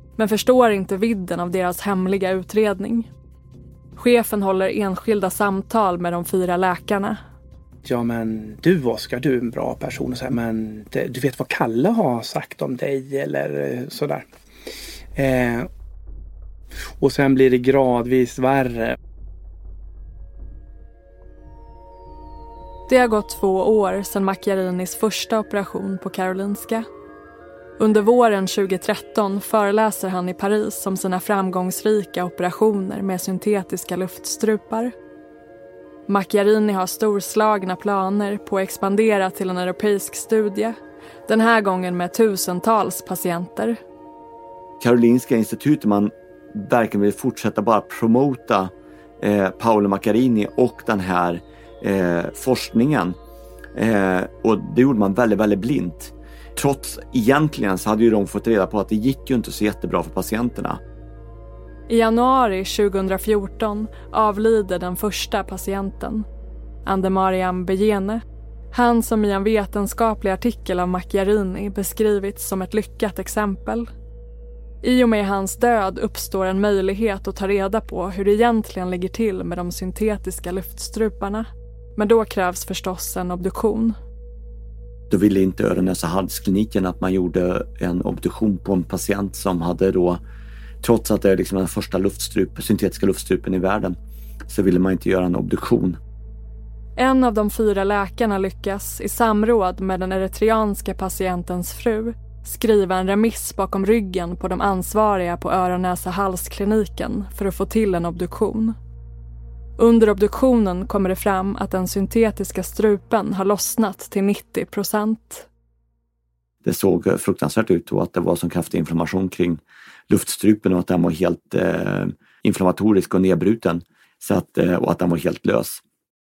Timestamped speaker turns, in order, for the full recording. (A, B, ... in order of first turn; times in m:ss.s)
0:00.2-0:03.1 A
0:04.0-0:07.2 A
0:07.8-0:14.3 B
0:15.2-0:15.7 B
0:17.0-0:19.0 B
0:22.9-0:26.8 A
0:27.8-0:34.9 A
0:36.1-0:40.8 A
0:41.3-0:43.8 A
0:44.8-0:53.2 C
0:53.8-1:00.8 C
1:01.9-1:06.3 A
1:06.9-1:13.9 A
1:14.8-1:24.0 A
1:25.1-1:30.2 C
1:30.8-1:34.0 C
1:34.5-1:36.0 C
1:37.0-1:48.8 A
1:49.8-1:55.5 A
1:56.6-2:05.8 C